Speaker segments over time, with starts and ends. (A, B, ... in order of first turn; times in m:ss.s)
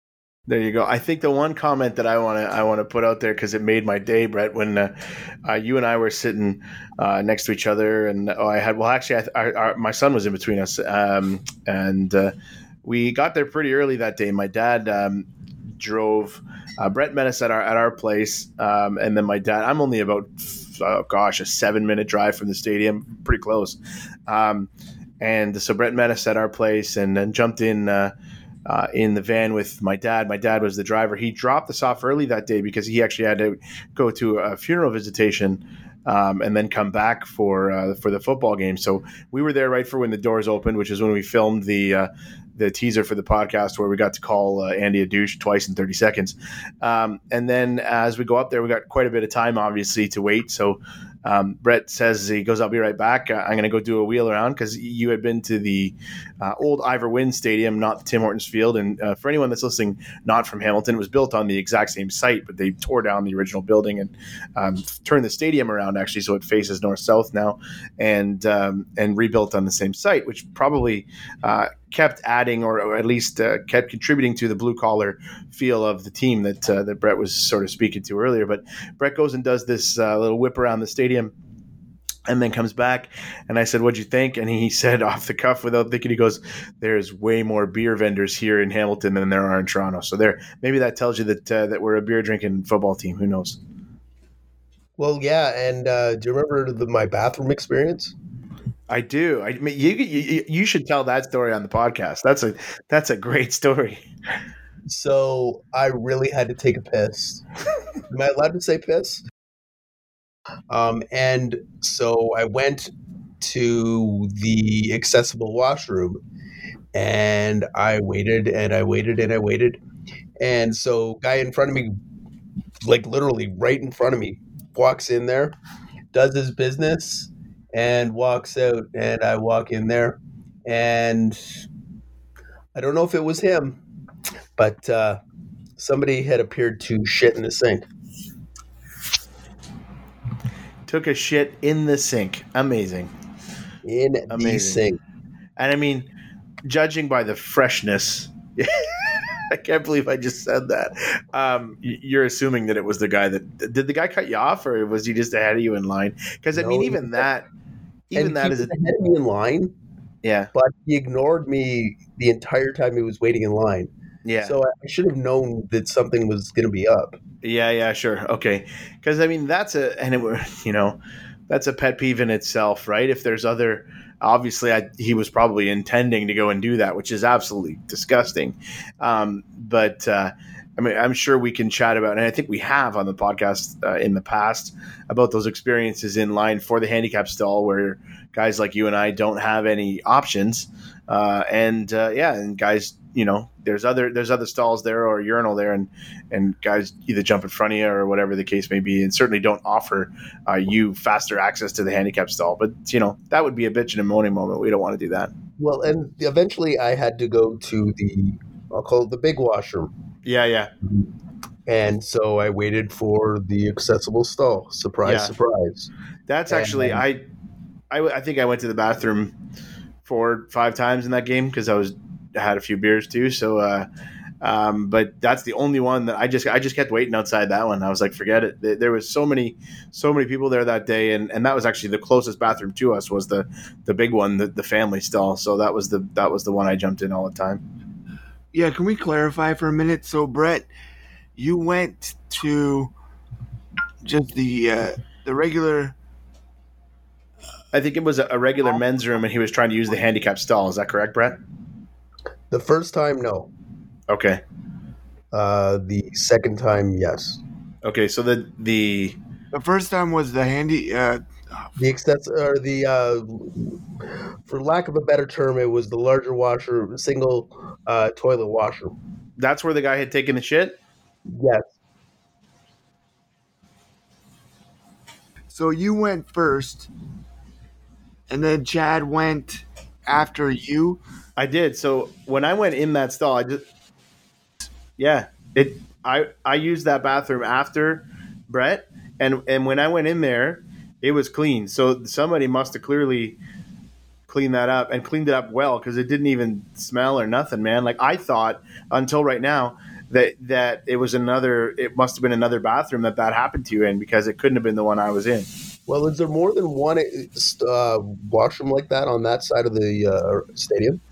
0:00.5-0:15.2 A
0:15.8-0:24.7 A
0:25.2-0:28.1 A
0:28.6-1:21.3 A
1:22.3-1:33.6 A
1:35.0-1:38.1 B
1:38.9-1:44.0 A
1:44.9-1:47.4 B
1:48.1-1:49.2 B
1:50.7-1:56.2 B
1:56.9-1:59.8 B
2:00.4-2:01.9 B
2:02.8-2:05.6 B
2:06.1-2:11.4 B
2:12.7-2:13.8 B
2:14.6-2:15.2 B
2:15.8-2:17.8 B
2:20.9-2:23.1 A
2:23.8-2:25.0 B
2:24.3-2:24.8 A
2:25.6-2:26.1 A
2:26.6-2:37.5 A
2:36.5-2:37.3 B
2:38.1-2:38.7 A
2:38.1-2:39.7 B
2:40.2-2:40.5 A
2:40.5-2:43.9 B
2:44.2-2:44.6 A
2:44.4-2:47.2 B
2:47.4-2:51.0 A
2:51.5-3:25.3 A
3:25.6-3:29.9 B
3:30.2-3:30.7 A
3:31.6-3:35.9 B
3:35.0-3:35.3 A
3:36.3-3:37.2 A
3:36.5-3:37.0 B
3:37.9-3:39.3 A
3:40.0-3:43.9 A
3:44.4-3:57.6 A
3:58.5-4:00.7 C
4:01.4-4:02.9 C
4:04.0-4:05.9 C
4:07.7-4:11.4 A
4:12.5-4:13.5 B
4:14.1-4:14.4 A
4:15.3-4:17.4 B
4:17.8-4:19.2 A
4:19.5-4:21.2 C
4:21.8-4:23.8 B
4:24.4-4:28.9 B
4:29.4-4:30.8 A
4:31.3-4:31.7 B
4:35.5-4:36.9 C
4:38.3-4:41.0 C
4:41.4-4:43.6 A
4:45.0-4:53.4 A
4:54.3-5:05.5 A
5:05.9-5:11.0 B